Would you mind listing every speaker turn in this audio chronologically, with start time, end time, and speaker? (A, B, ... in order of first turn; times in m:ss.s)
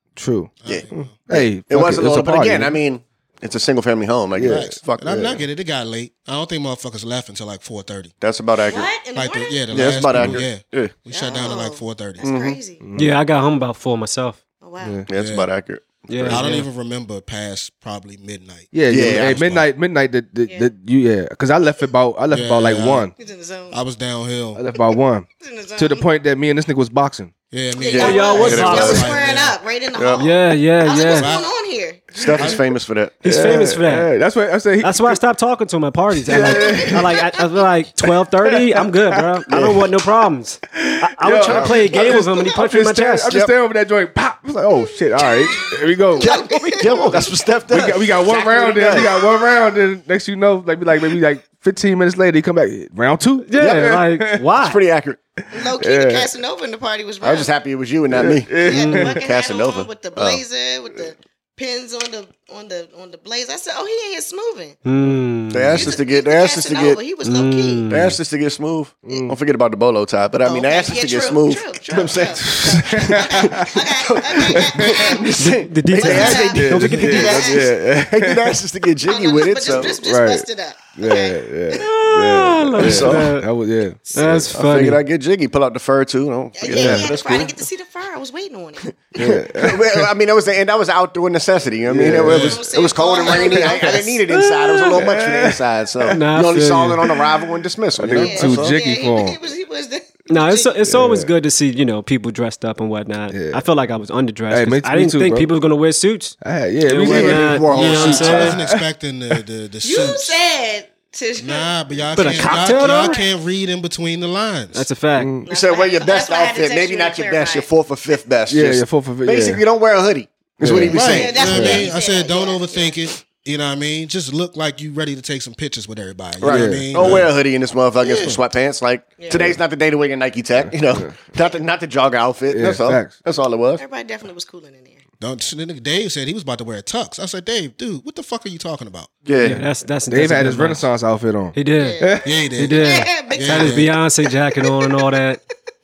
0:00.2-0:02.8 A
0:00.6-0:01.2 B
0:00.6-0:05.4 C
0:04.4-0:05.4 A
0:04.4-0:08.1 B
0:08.2-0:08.9 C
0:08.7-0:09.7 D
0:09.1-0:12.2 B
0:09.7-0:10.9 C
0:10.1-0:10.4 A
0:11.1-0:12.8 D
0:12.2-0:12.6 C
0:12.8-0:13.1 A
0:13.0-0:14.4 E
0:14.6-0:15.0 D
0:14.8-0:15.1 A
0:15.1-0:16.0 C
0:15.1-0:15.5 B
0:16.1-0:16.7 E
0:16.2-0:19.6 B
0:18.7-0:23.1 A
0:18.9-0:19.4 C
0:20.4-0:20.7 D
0:22.3-0:23.1 B
0:23.2-0:23.8 D
0:23.7-0:24.6 B
0:24.5-0:27.3 A
0:25.4-0:26.1 D
0:27.5-0:29.6 B
0:27.7-0:32.6 D
0:27.8-0:29.1 C
0:28.0-0:29.0 E
0:29.9-0:30.2 C
0:30.2-0:31.3 E
0:31.0-0:31.5 B
0:32.1-0:33.2 C
0:32.4-0:32.6 B
0:33.2-0:34.1 E
0:33.2-0:35.2 A
0:34.8-0:43.4 E
0:36.2-0:37.3 A
0:36.4-0:37.2 D
0:38.4-0:39.9 A
0:40.7-0:46.3 A
0:41.5-0:41.8 C
0:45.2-0:47.2 D
0:46.2-0:49.1 C
0:47.7-0:54.4 A
0:48.4-0:49.5 D
0:53.4-0:54.8 E
0:54.6-0:55.2 C
0:55.5-0:57.5 D
0:55.6-0:56.3 A
0:57.2-1:00.4 C
0:58.1-0:59.2 A
0:58.5-1:04.8 D
1:04.8-1:05.9 E
1:05.5-1:07.0 C
1:05.7-1:07.9 D
1:07.2-1:08.2 E
1:07.9-1:20.0 C
1:09.0-1:09.4 A
1:10.4-1:15.3 D
1:12.4-1:13.8 A
1:14.4-1:15.2 A
1:15.4-1:17.3 E
1:16.0-1:17.7 D
1:16.2-1:18.6 A
1:19.1-1:21.9 D
1:19.8-1:24.6 A
1:21.7-1:23.5 E
1:22.8-1:23.3 C
1:24.1-1:25.0 E
1:24.5-1:27.5 C
1:26.6-1:29.0 D
1:26.7-1:27.1 A
1:28.8-1:38.8 C
1:29.2-1:30.1 A
1:31.8-1:32.6 A
1:32.3-1:34.2 D
1:33.2-1:34.2 A
1:34.3-1:35.0 E
1:34.9-1:36.1 A
1:36.1-1:37.1 E
1:37.9-1:39.4 A
1:38.1-1:40.8 D
1:40.3-1:46.4 E
1:40.9-1:41.3 A
1:43.3-1:43.6 A
1:44.5-1:45.5 A
1:46.4-1:49.4 A
1:46.9-1:48.6 C
1:46.9-1:48.5 E
1:47.7-1:50.4 B
1:49.8-1:53.3 D
1:51.4-1:54.8 B
1:52.1-1:53.2 E
1:54.7-1:55.3 E
1:55.2-1:55.5 A
1:55.4-1:57.7 D
1:55.5-2:01.8 C
1:58.5-1:59.6 A
2:00.6-2:01.9 A
2:00.6-2:07.3 B
2:00.9-2:03.1 D
2:06.4-2:13.8 C
2:06.4-2:07.3 A
2:08.0-2:08.4 B
2:09.2-2:09.5 D
2:10.6-2:11.1 A
2:12.5-2:13.2 A
2:13.8-2:15.0 D
2:15.2-2:19.1 B
2:19.2-2:19.6 C
2:19.4-2:22.7 A
2:19.4-2:20.9 E
2:21.5-2:25.4 E
2:21.8-2:24.0 D
2:22.2-2:23.9 B
2:24.6-2:24.9 D